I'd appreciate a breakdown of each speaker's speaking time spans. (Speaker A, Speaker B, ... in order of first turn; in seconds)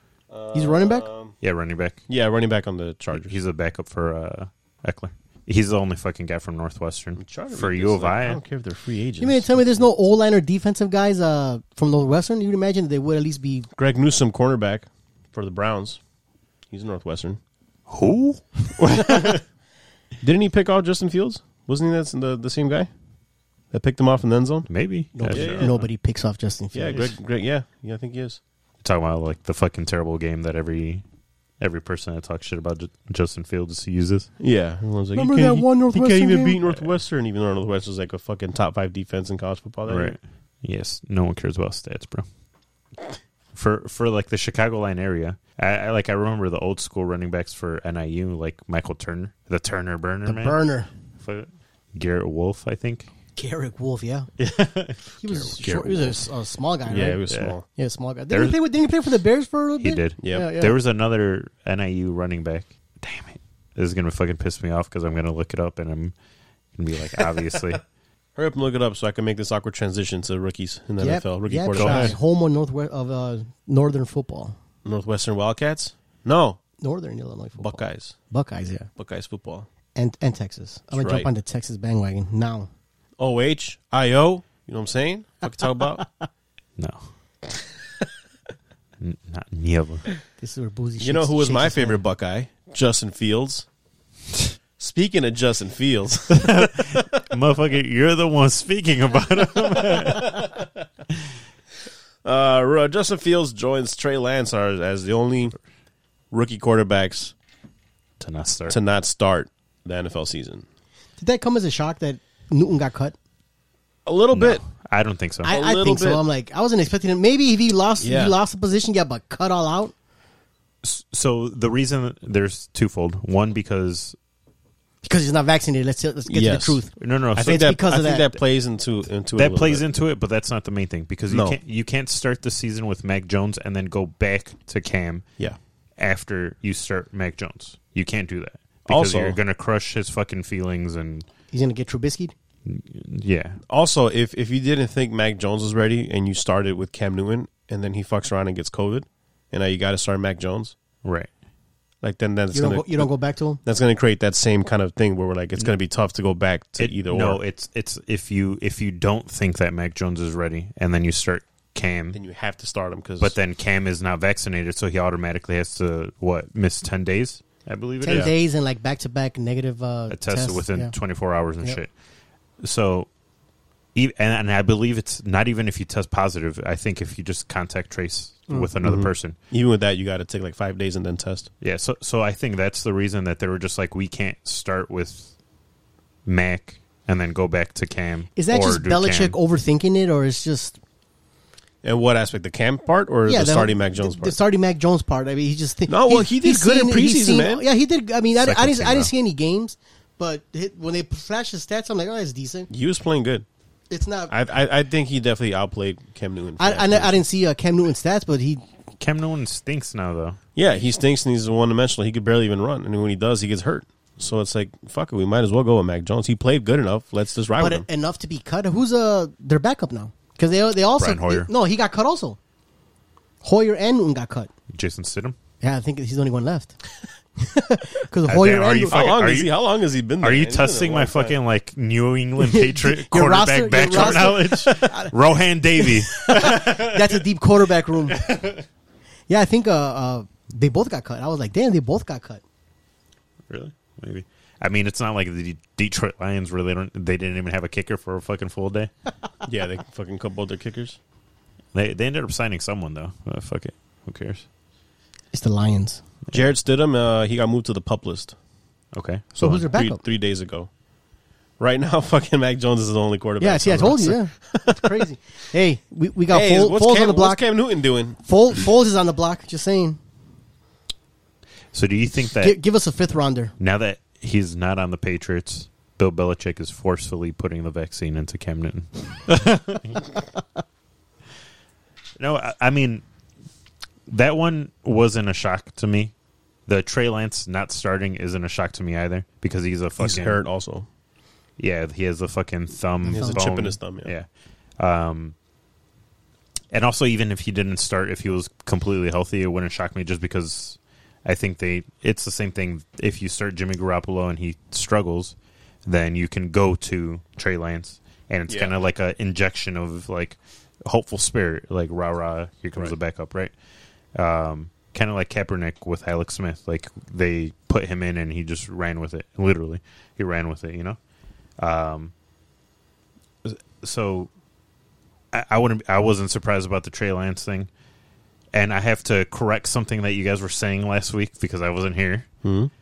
Speaker A: 0.3-1.4, 2.1-3.4, 7.2-9.8, 13.8-16.0, 16.7-17.4, 20.2-22.9, 23.7-24.7, 25.3-25.8, 26.7-28.4, 34.4-40.2, 55.5-56.2, 56.9-57.6, 60.2-60.5, 68.4-72.2, 74.8-76.6, 77.6-78.2, 79.0-79.7, 80.9-81.3, 83.2-86.0, 91.0-93.7, 94.8-97.0, 100.1-100.7, 102.2-105.6, 106.3-107.3, 108.7-110.7, 114.1-114.6, 115.5-116.2, 118.0-118.4, 126.3-126.8, 127.3-129.8, 131.3-131.6, 138.9-139.4, 143.7-150.8, 152.0-153.1, 153.6-157.4, 162.1-163.4, 178.8-181.5, 191.8-194.4, 195.9-197.7, 202.7-203.5, 204.3-207.2, 210.6-217.9, 228.9-231.4, 233.8-234.5, 249.5-251.0, 256.3-258.4, 259.4-260.7, 261.6-265.0, 266.3-268.2, 290.0-290.9, 293.1-294.1, 308.5-308.8, 332.4-332.7
Speaker B: 0.5-1.1, 9.2-13.7, 25.1-27.0, 35.1-36.6, 50.2-50.9, 53.4-54.3, 55.2-57.2, 57.8-60.8, 71.0-74.6, 76.8-78.9, 80.0-82.7, 86.0-86.2, 90.4-92.0, 111.2-113.2, 115.4-119.9, 125.0-128.3, 141.5-142.3, 152.5-153.6, 168.0-170.9, 188.4-190.8, 193.3-202.7, 203.9-204.3, 206.6-208.6, 217.6-222.4, 223.4-224.5, 225.6-226.8, 227.4-229.1, 232.4-235.2, 235.8-238.2, 239.3-242.4, 255.3-256.0, 259.4-260.0, 263.4-267.4, 268.2-270.0, 272.4-273.5
Speaker C: 1.4-2.0, 3.1-8.4, 17.9-19.4, 24.7-25.8, 28.8-31.0, 31.6-34.3, 39.9-42.3, 43.5-50.6, 51.2-53.1, 54.4-55.5, 57.3-57.5, 58.3-58.6, 59.8-66.1, 66.8-67.8, 71.8-72.2, 86.8-87.0, 89.0-90.1, 96.3-100.5, 108.2-108.8, 114.3-115.5, 120.8-124.2, 127.0-127.8, 129.3-135.3, 136.0-141.3, 142.7-143.6, 151.0-151.3, 156.8-162.2, 163.2-168.3, 170.1-171.9, 172.6-173.1, 173.9-179.4, 181.6-185.3, 186.3-189.3, 198.4-199.1, 209.0-210.4, 221.0-221.5, 224.7-225.4, 228.2-229.6, 230.2-237.2, 238.1-238.7, 243.5-248.9, 251.7-254.4, 258.9-259.6, 271.7-272.6, 273.6-280.1, 282.2-283.0, 284.1-286.1, 286.7-290.4, 291.6-294.3, 294.8-295.4, 296.7-305.4, 305.9-313.5, 314.1-321.0, 321.6-322.1, 323.4-324.3, 325.3-327.7, 328.5-332.3